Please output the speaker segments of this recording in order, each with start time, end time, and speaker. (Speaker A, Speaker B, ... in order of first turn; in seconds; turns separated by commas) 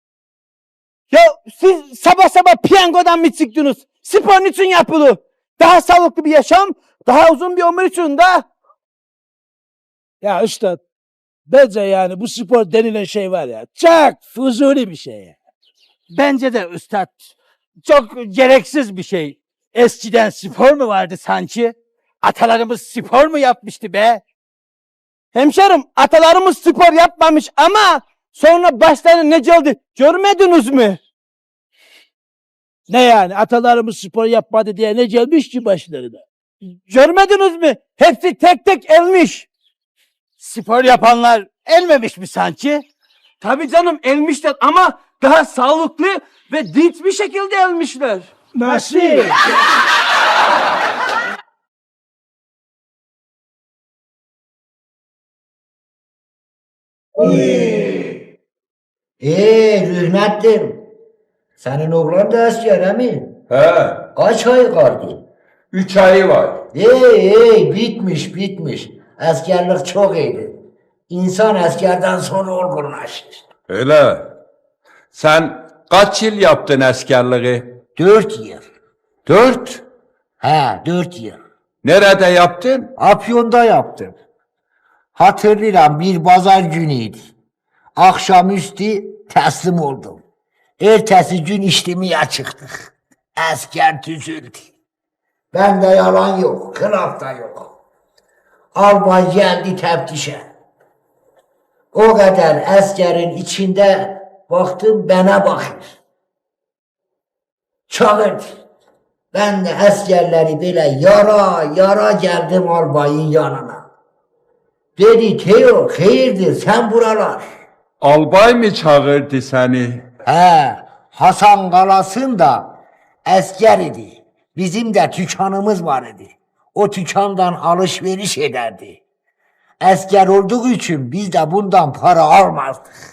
Speaker A: 1.1-8.4, Speaker B: 10.2-10.8, Speaker B: 11.5-15.3, Speaker C: 16.1-17.3, Speaker C: 17.8-24.2, Speaker A: 25.3-31.0, Speaker B: 32.9-36.2, Speaker A: 36.6-39.5, Speaker C: 40.4-42.8, Speaker A: 43.4-49.2, Speaker B: 48.5-49.4, Speaker D: 59.2-60.8, Speaker D: 61.6-63.3, Speaker E: 63.5-64.1, Speaker D: 64.2-65.2, Speaker E: 65.7-66.6, Speaker D: 66.7-70.5, Speaker D: 71.1-73.4, Speaker E: 73.7-74.3, Speaker E: 75.1-77.7, Speaker D: 78.0-78.6, Speaker E: 79.2-79.8, Speaker D: 80.4-81.4, Speaker E: 81.8-82.9, Speaker D: 83.0-84.2, Speaker D: 85.1-87.3, Speaker D: 88.0-90.2, Speaker D: 90.8-94.7, Speaker D: 95.5-97.7, Speaker D: 98.8-100.4, Speaker D: 101.9-106.0, Speaker D: 107.9-108.6, Speaker D: 109.3-113.8, Speaker D: 115.0-117.4, Speaker E: 118.0-120.0, Speaker D: 120.3-122.7, Speaker D: 123.2-129.0, Speaker D: 129.8-132.9